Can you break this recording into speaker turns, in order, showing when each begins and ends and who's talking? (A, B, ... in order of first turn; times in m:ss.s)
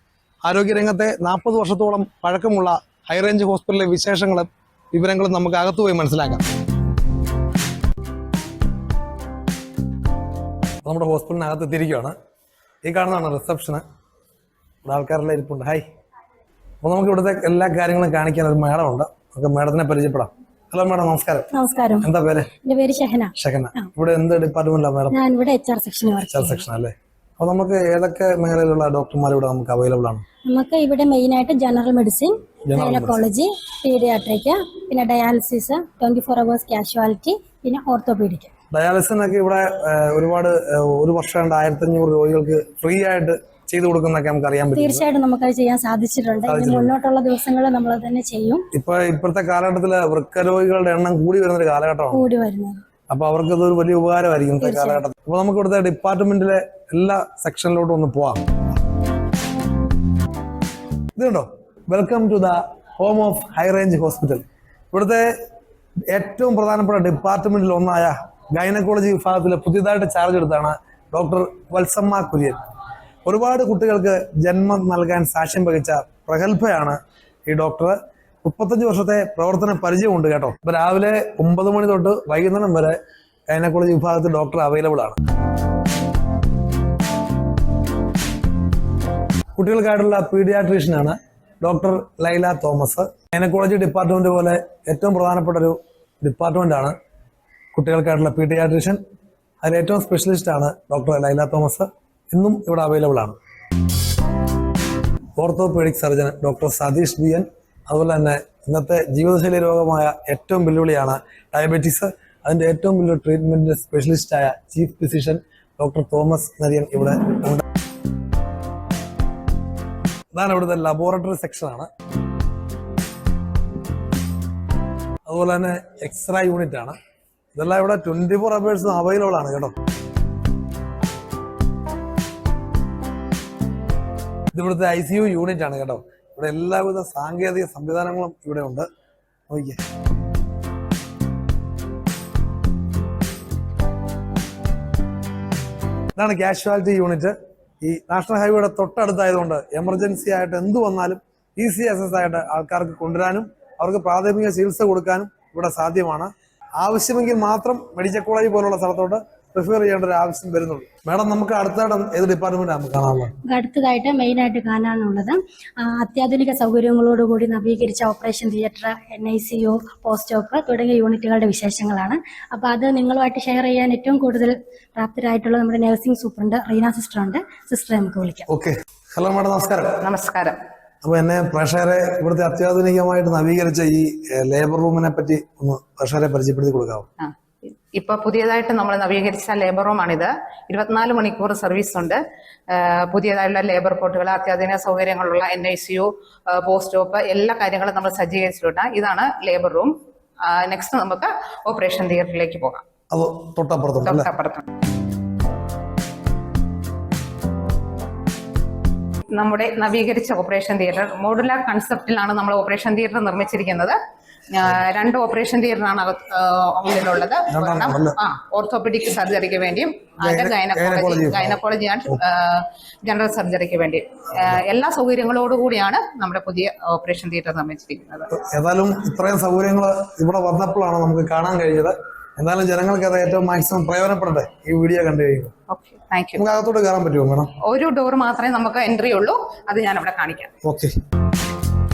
0:00.4-0:06.4 A
0:10.8-0:12.2 A
0:12.8-0:13.8 A
0:14.8-0:15.8 A
0:16.8-0:21.5 A
0:21.5-0:22.1 B
0:22.0-0:22.5 A
0:22.6-0:23.9 B
0:23.4-0:25.2 A
0:25.1-0:26.6 B
0:26.3-0:30.2 A
0:30.4-0:38.5 B
0:32.7-0:33.2 A
0:38.7-0:45.0 A
0:44.8-0:48.7 B
0:46.5-0:46.9 A
0:48.7-0:52.3 A
0:52.1-0:52.8 B
0:53.1-0:58.4 A
0:54.6-0:55.0 B
1:01.2-1:05.3 A
1:06.1-1:12.6 A
1:13.3-1:23.0 A
1:23.5-1:25.2 A
1:29.6-1:37.0 A
1:37.7-1:39.0 A
1:39.6-1:43.4 A
1:45.4-1:57.6 A
2:00.3-2:01.9 A
2:05.3-2:07.0 A
2:07.6-2:09.7 A
2:14.5-2:18.9 A
2:19.5-2:19.8 A
2:26.2-2:43.3 A
2:43.4-2:58.5 B
2:58.5-3:00.0 A
3:00.0-3:00.6 C
3:01.0-3:07.1 A
3:07.2-3:22.8 C
3:23.1-3:24.3 A
3:24.0-3:24.7 C
3:29.3-3:34.0 C
3:34.5-3:48.3 C
3:37.5-3:38.2 A
3:40.2-3:41.6 A
3:48.3-3:55.5 A
3:55.7-3:56.4 C
3:56.4-3:57.5 A
3:57.6-4:00.5 C
4:00.6-4:01.0 A